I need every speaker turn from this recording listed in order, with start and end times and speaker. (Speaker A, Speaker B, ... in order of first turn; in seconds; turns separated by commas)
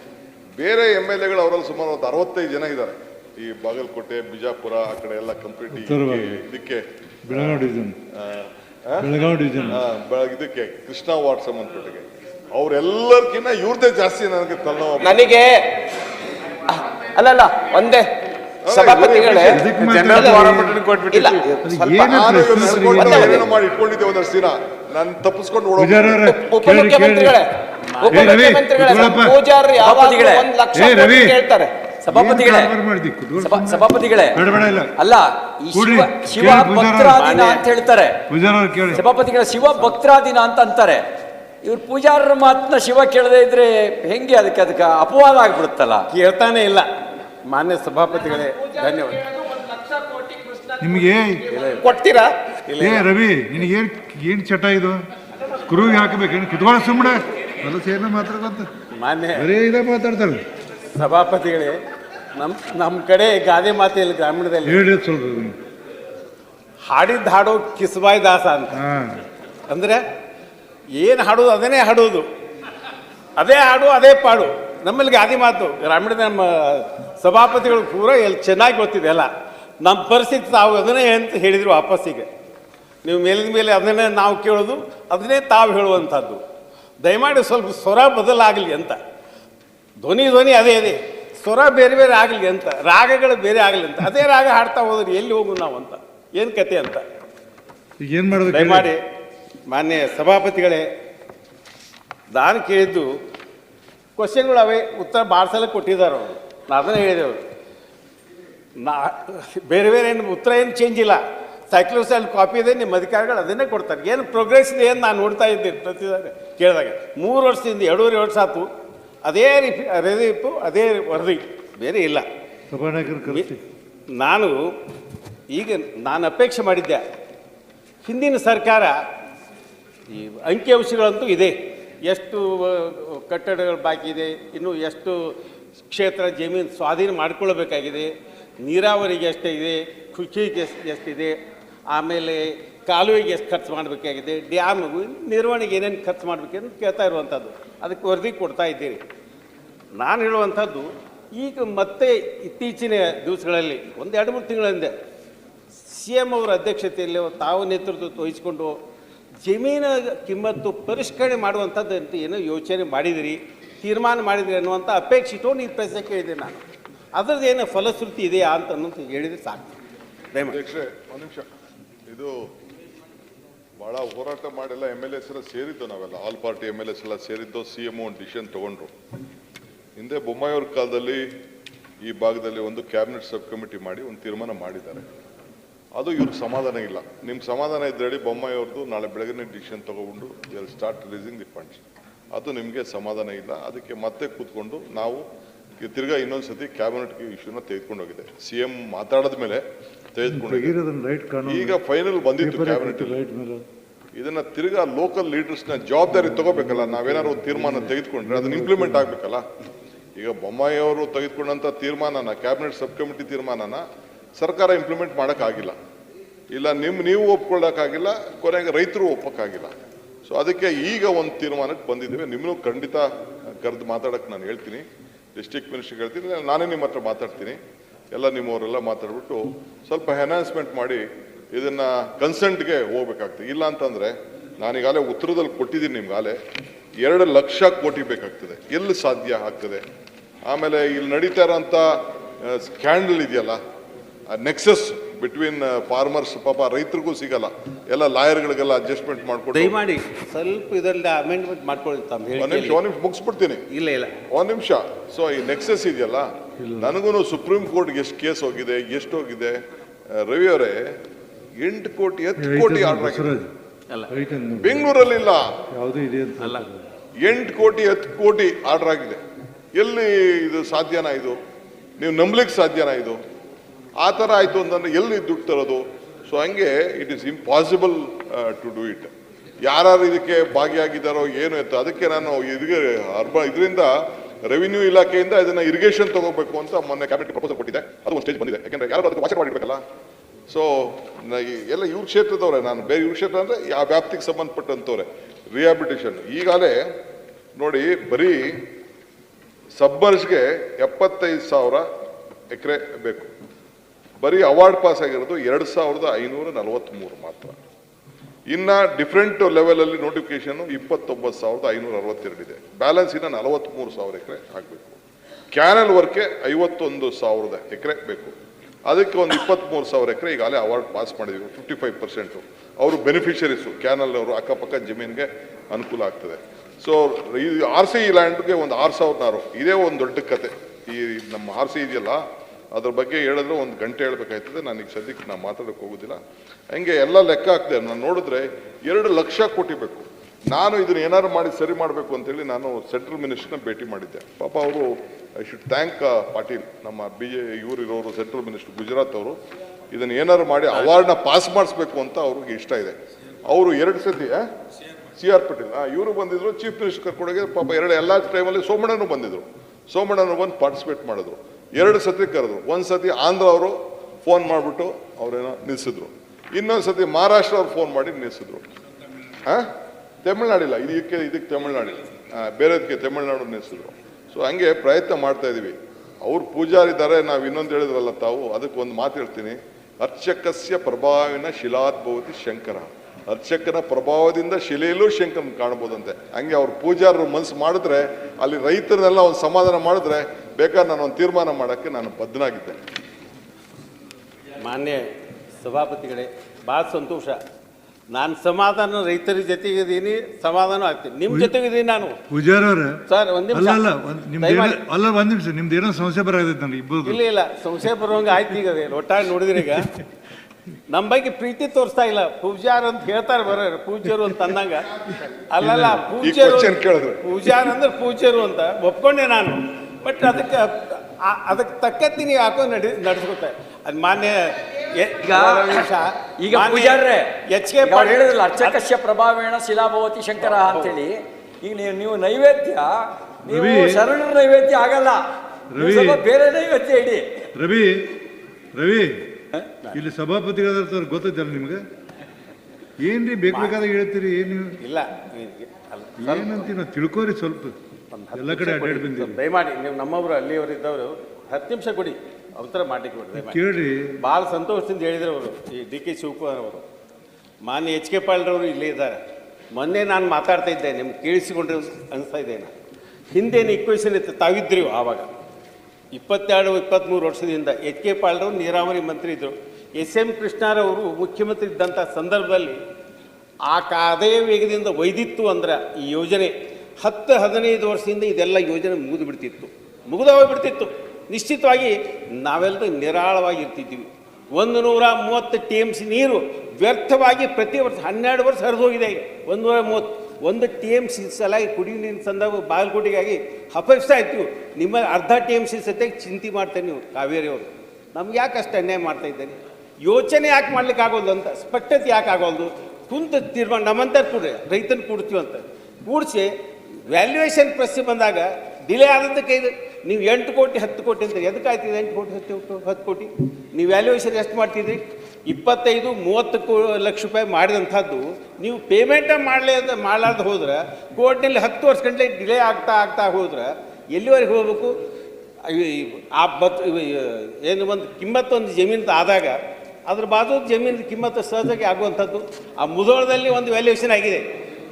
Speaker A: 0.6-9.1, Speaker B: 5.7-6.4, Speaker B: 7.2-8.0, Speaker B: 9.0-9.8, Speaker A: 9.7-15.2, Speaker C: 15.0-15.7, Speaker C: 16.7-18.1, Speaker A: 18.6-19.6, Speaker C: 18.7-22.1, Speaker B: 19.5-20.8, Speaker D: 19.9-21.4, Speaker B: 21.6-23.5, Speaker A: 22.1-26.2, Speaker C: 22.8-23.4, Speaker B: 25.8-27.4, Speaker C: 26.1-27.5, Speaker D: 28.0-28.2, Speaker C: 28.0-31.7, Speaker B: 28.1-29.4, Speaker E: 29.8-30.5, Speaker B: 30.7-31.4, Speaker E: 32.0-32.7, Speaker B: 32.1-34.9, Speaker E: 33.4-34.4, Speaker E: 35.0-38.2, Speaker B: 35.7-37.2, Speaker D: 37.2-37.6, Speaker B: 38.3-39.0, Speaker E: 38.9-41.0, Speaker E: 41.6-46.0, Speaker D: 46.1-46.9, Speaker D: 47.5-49.3, Speaker C: 48.6-50.9, Speaker B: 50.8-51.4, Speaker D: 51.4-53.1, Speaker C: 51.7-52.5, Speaker B: 52.8-55.0, Speaker B: 55.6-58.7, Speaker D: 58.9-59.5, Speaker B: 59.4-60.4, Speaker D: 60.9-61.8, Speaker D: 62.3-64.8, Speaker B: 64.6-65.6, Speaker D: 66.8-68.8, Speaker B: 68.7-69.2, Speaker D: 69.7-70.0, Speaker D: 71.0-72.2, Speaker D: 73.4-79.3, Speaker D: 79.8-82.3, Speaker D: 83.0-86.4, Speaker D: 87.0-89.0, Speaker D: 90.0-97.0, Speaker B: 98.0-98.9, Speaker D: 98.5-99.0, Speaker D: 99.7-100.9, Speaker D: 102.3-103.1, Speaker D: 104.2-107.4, Speaker D: 108.8-111.2, Speaker D: 111.7-118.7, Speaker D: 119.2-122.2, Speaker B: 122.7-123.6, Speaker D: 124.2-124.6, Speaker D: 125.5-127.0, Speaker D: 128.0-128.9, Speaker D: 130.1-135.3, Speaker D: 135.9-138.1, Speaker D: 138.6-141.3, Speaker D: 141.9-149.0, Speaker D: 149.9-154.9, Speaker D: 155.8-158.8, Speaker D: 159.4-166.6, Speaker D: 167.1-169.7, Speaker A: 170.5-171.5, Speaker A: 172.1-172.3, Speaker A: 173.8-178.9, Speaker A: 180.0-181.3, Speaker A: 182.0-185.1, Speaker A: 185.9-195.2, Speaker A: 195.8-200.8, Speaker B: 200.3-201.8, Speaker A: 201.5-203.2, Speaker B: 202.4-203.6, Speaker A: 204.2-209.4, Speaker B: 206.1-209.1, Speaker A: 210.2-213.8, Speaker A: 214.4-215.8, Speaker A: 216.5-219.7, Speaker A: 220.2-223.1, Speaker A: 223.6-227.6, Speaker A: 228.1-236.4, Speaker A: 237.0-239.8, Speaker A: 240.4-243.6, Speaker A: 244.3-249.7, Speaker D: 249.5-252.8, Speaker A: 252.4-253.6, Speaker D: 253.7-254.2, Speaker A: 254.3-259.6, Speaker B: 256.6-256.9, Speaker A: 260.1-260.9, Speaker A: 261.6-263.4, Speaker B: 262.4-263.5, Speaker B: 264.1-264.9, Speaker A: 264.6-265.5, Speaker B: 265.7-266.8, Speaker A: 267.2-269.2, Speaker A: 269.7-271.4, Speaker A: 272.0-273.2, Speaker A: 274.0-279.1, Speaker A: 279.6-283.9, Speaker A: 284.4-289.8, Speaker A: 290.5-296.9, Speaker A: 297.6-298.6, Speaker A: 299.8-301.9, Speaker A: 302.5-303.3, Speaker A: 304.2-307.6, Speaker A: 308.5-315.0, Speaker A: 315.5-318.3, Speaker A: 318.9-336.2, Speaker A: 336.7-349.4, Speaker A: 349.9-352.9, Speaker A: 353.5-354.4, Speaker A: 355.1-368.7, Speaker A: 370.2-392.8, Speaker D: 394.6-395.1, Speaker D: 395.6-397.4, Speaker D: 398.1-402.2, Speaker B: 402.3-403.0, Speaker D: 403.1-403.8, Speaker B: 403.5-407.2, Speaker D: 404.4-404.8, Speaker D: 407.0-409.9, Speaker D: 410.9-428.8, Speaker A: 415.6-417.6, Speaker B: 415.6-416.0, Speaker E: 425.2-425.9, Speaker E: 426.4-432.9, Speaker D: 430.4-431.0, Speaker E: 433.4-435.2, Speaker B: 433.5-434.0, Speaker B: 435.7-436.2, Speaker E: 435.8-437.3, Speaker B: 437.5-438.1, Speaker B: 438.7-439.4, Speaker B: 439.9-441.8, Speaker B: 443.0-444.8, Speaker D: 443.5-443.8, Speaker D: 444.8-446.7, Speaker B: 446.2-447.7, Speaker D: 448.1-453.6, Speaker B: 448.3-449.4, Speaker B: 453.3-454.1, Speaker D: 454.2-456.8, Speaker D: 457.6-462.7, Speaker D: 463.3-465.3, Speaker D: 466.1-472.8, Speaker D: 473.6-506.5, Speaker D: 507.1-524.9, Speaker D: 525.6-534.5